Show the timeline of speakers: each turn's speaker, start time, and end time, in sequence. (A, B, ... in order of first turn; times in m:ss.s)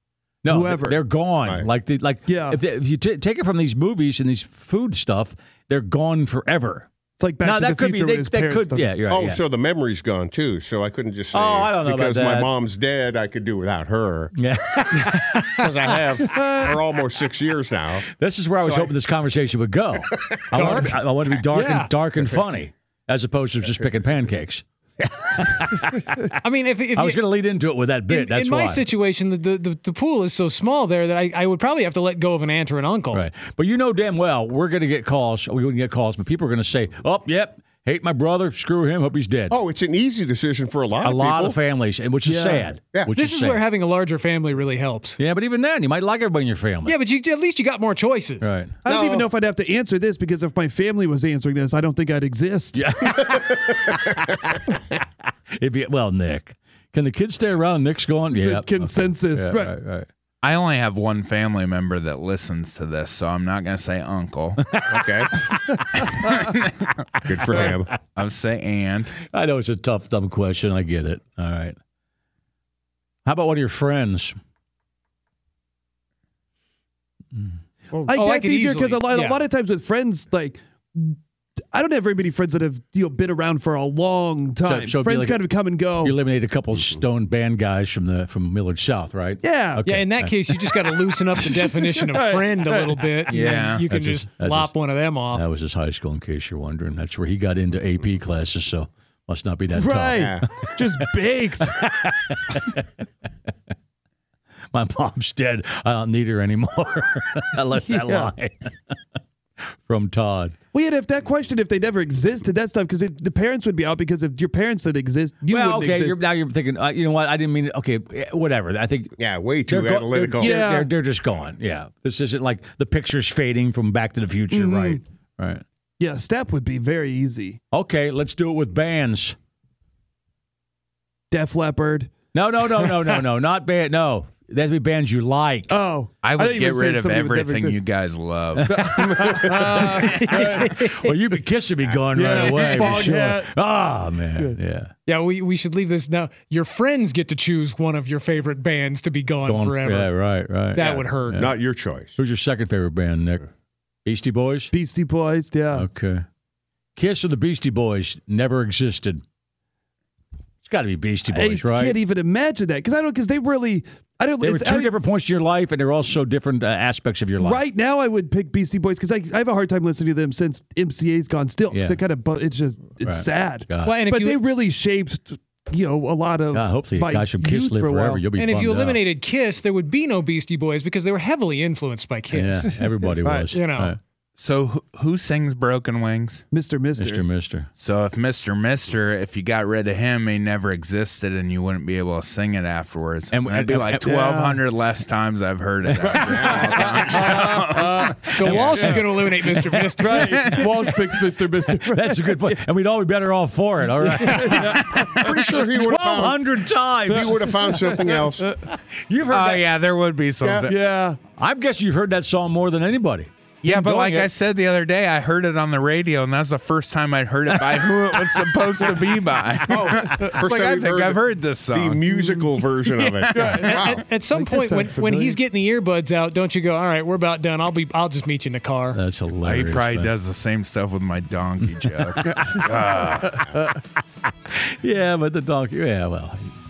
0:00.4-0:06.9 A
0:00.5-0:01.0 B
0:01.4-0:01.7 C
0:02.3-0:02.6 B
0:07.2-0:09.0 B
0:07.4-0:09.4 A
0:09.1-0:14.3 C
0:11.3-0:12.5 A
0:14.4-0:16.2 A
0:15.5-0:18.1 C
0:16.3-0:16.7 B
0:18.1-0:24.6 A
0:18.6-0:18.9 B
0:20.6-0:20.9 D
0:21.5-0:21.9 D
0:25.2-0:26.0 A
0:26.4-0:27.2 D
0:26.9-0:28.9 A
0:28.1-0:33.2 D
0:33.1-0:39.6 A
0:39.5-0:41.6 C
0:41.0-0:43.6 A
0:42.2-0:42.7 B
0:43.1-0:45.2 D
0:45.2-0:47.0 A
0:46.9-0:48.5 D
0:48.4-0:48.8 A
0:48.8-0:52.8 B
0:48.9-0:49.3 C
0:52.7-0:55.0 A
0:55.6-1:00.1 A
0:58.3-0:59.8 B
1:00.4-1:04.6 E
1:04.6-1:05.1 A
1:04.9-1:05.3 C
1:06.0-1:06.9 E
1:07.3-1:08.0 C
1:07.4-1:07.7 A
1:07.4-1:09.2 E
1:09.2-1:11.8 A
1:13.2-1:14.4 A
1:17.9-1:21.2 B
1:18.1-1:19.4 D
1:21.7-1:26.2 B
1:24.6-1:25.5 A
1:26.0-1:30.4 A
1:29.4-1:29.9 B
1:29.8-1:35.4 D
1:31.4-1:33.3 B
1:33.3-1:33.8 E
1:33.9-1:34.8 A
1:35.3-1:40.8 A
1:39.7-1:41.8 B
1:40.2-1:40.5 C
1:41.8-1:42.8 A
1:44.7-1:49.0 A
1:47.9-1:48.3 B
1:49.8-1:50.6 A
1:50.7-1:56.2 B
1:55.5-2:05.6 A
1:59.2-2:00.6 C
2:00.4-2:00.9 B
2:04.5-2:05.0 B
2:06.0-2:07.6 B
2:07.7-2:09.4 A
2:11.3-2:12.1 B
2:12.3-2:15.7 A
2:12.7-2:13.3 B
2:15.7-2:17.8 B
2:16.2-2:18.8 E
2:18.6-2:24.9 A
2:18.7-2:21.1 B
2:22.1-2:23.5 B
2:25.1-2:30.2 D
2:29.5-2:31.6 A
2:30.7-2:31.4 D
2:30.8-2:32.2 C
2:32.2-2:33.4 A
2:34.0-2:34.7 A
2:34.7-2:35.9 B
2:35.7-2:36.2 A
2:37.0-2:39.2 A
2:40.6-2:42.0 A
2:41.3-2:44.9 B
2:44.4-2:47.6 A
2:47.4-2:58.2 B
2:51.7-2:52.0 A
2:53.0-2:54.0 A
2:53.8-2:54.4 D
2:56.5-2:59.0 A
2:58.4-3:02.8 D
3:02.3-3:04.0 A
3:03.2-3:03.5 B
3:03.5-3:04.0 D
3:04.4-3:06.4 E
3:06.5-3:07.3 B
3:07.0-3:07.7 A
3:07.8-3:21.3 E
3:13.3-3:14.2 A
3:14.0-3:14.6 B
3:16.0-3:19.4 A
3:16.0-3:18.1 B
3:16.2-3:16.7 C
3:18.3-3:20.2 D
3:18.7-3:19.0 B
3:20.0-3:22.6 B
3:21.7-3:25.0 A
3:24.2-3:25.1 B
3:24.2-3:25.5 E
3:25.2-3:26.4 C
3:25.6-3:28.1 A
3:27.1-3:28.6 B
3:27.2-3:28.5 C
3:28.7-3:29.7 A
3:29.3-3:30.7 E
3:30.4-3:30.7 C
3:30.7-3:31.2 B
3:31.4-3:34.3 A
3:33.6-3:42.1 E
3:39.7-3:44.1 C
3:40.1-3:40.4 B
3:42.1-3:42.5 B
3:42.6-3:43.9 E
3:43.3-3:45.4 B
3:43.6-3:49.0 D
3:48.9-3:50.1 A
3:49.4-3:53.4 E
3:52.2-3:53.0 A
3:53.4-3:53.7 B
3:54.5-3:56.5 A